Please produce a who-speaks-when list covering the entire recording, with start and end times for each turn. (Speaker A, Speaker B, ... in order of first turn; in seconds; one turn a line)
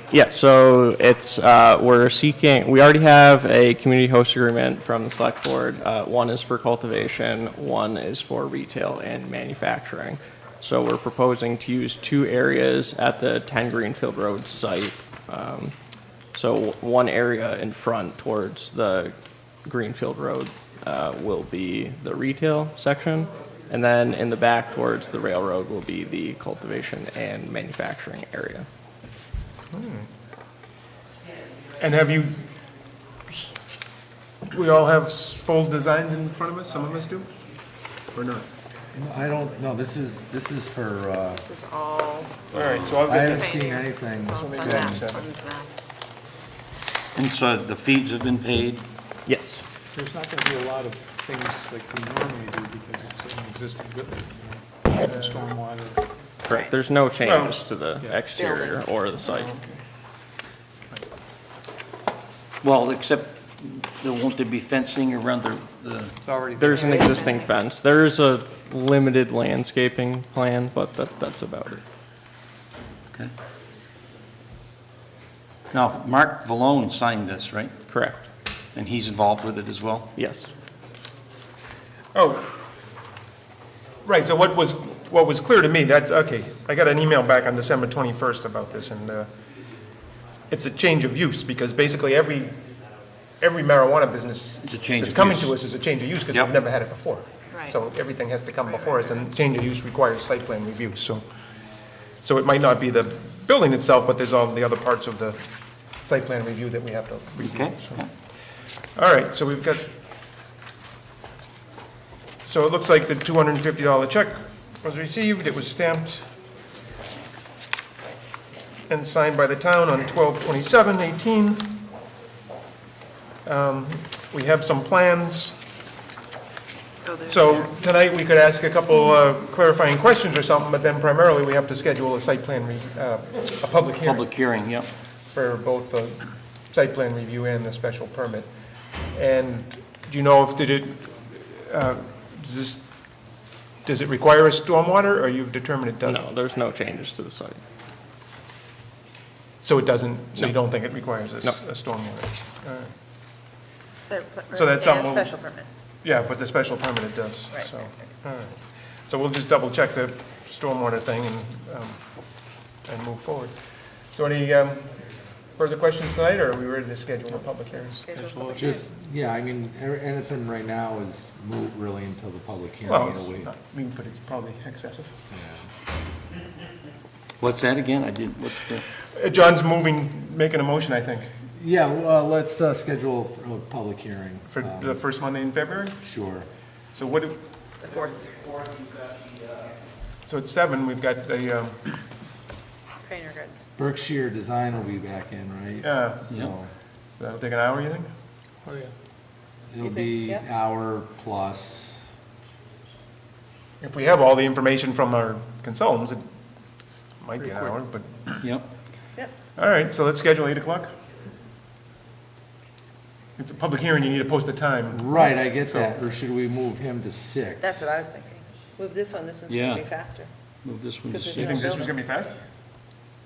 Speaker A: 0.1-15.8
Speaker A: 16.3-28.7
Speaker B: 29.7-30.1
Speaker B: 31.8-32.5
Speaker B: 34.5-37.3
Speaker B: 38.1-38.5
Speaker C: 39.0-41.5
Speaker D: 41.4-42.5
Speaker B: 42.5-43.6
Speaker C: 42.9-45.2
Speaker D: 43.3-45.9
Speaker B: 44.3-45.3
Speaker E: 47.2-48.9
Speaker A: 49.3-49.6
Speaker F: 49.9-56.1
Speaker B: 55.0-55.4
Speaker A: 56.5-59.5
Speaker B: 57.2-57.6
Speaker D: 58.4-58.8
Speaker B: 59.3-59.8
Speaker E: 62.6-66.2
Speaker F: 66.2-67.2
Speaker A: 66.5-71.8
Speaker D: 66.7-67.5
Speaker E: 75.7-77.8
Speaker A: 77.9-78.2
Speaker E: 78.7-80.1
Speaker A: 80.2-80.5
Speaker B: 82.1-82.5
Speaker B: 84.0-89.3
Speaker B: 90.5-92.6
Speaker B: 93.4-101.2
Speaker E: 94.6-95.6
Speaker B: 102.2-105.4
Speaker B: 106.0-108.0
Speaker E: 107.4-108.1
Speaker B: 109.0-109.9
Speaker B: 112.4-116.3
Speaker B: 118.9-121.8
Speaker B: 123.5-125.5
Speaker D: 127.0-127.6
Speaker B: 127.3-134.3
Speaker E: 134.1-134.9
Speaker B: 135.3-138.5
Speaker B: 139.1-142.8
Speaker B: 143.9-146.2
Speaker A: 146.0-147.6
Speaker B: 149.6-152.9
Speaker D: 154.0-155.7
Speaker B: 154.5-155.3
Speaker B: 156.0-162.0
Speaker B: 162.9-163.5
Speaker B: 164.1-164.9
Speaker B: 165.6-168.1
Speaker D: 167.7-168.8
Speaker C: 168.4-173.5
Speaker B: 172.9-175.1
Speaker C: 175.3-175.7
Speaker E: 177.4-178.8
Speaker B: 179.1-181.3
Speaker C: 181.6-185.0
Speaker B: 184.5-186.0
Speaker C: 186.0-186.5
Speaker B: 186.9-187.4
Speaker D: 187.8-188.3
Speaker B: 190.3-191.8
Speaker D: 193.0-193.7
Speaker C: 193.8-196.7
Speaker B: 195.8-196.3
Speaker B: 197.2-198.1
Speaker F: 198.7-198.9
Speaker C: 199.7-202.1
Speaker D: 199.8-200.4
Speaker B: 203.8-206.2
Speaker B: 207.2-208.4
Speaker F: 207.4-207.8
Speaker B: 209.6-210.9
Speaker B: 213.4-215.9
Speaker C: 214.9-218.0
Speaker D: 217.6-220.3
Speaker E: 219.5-219.9
Speaker E: 220.6-221.8
Speaker D: 221.1-221.9
Speaker B: 221.3-222.3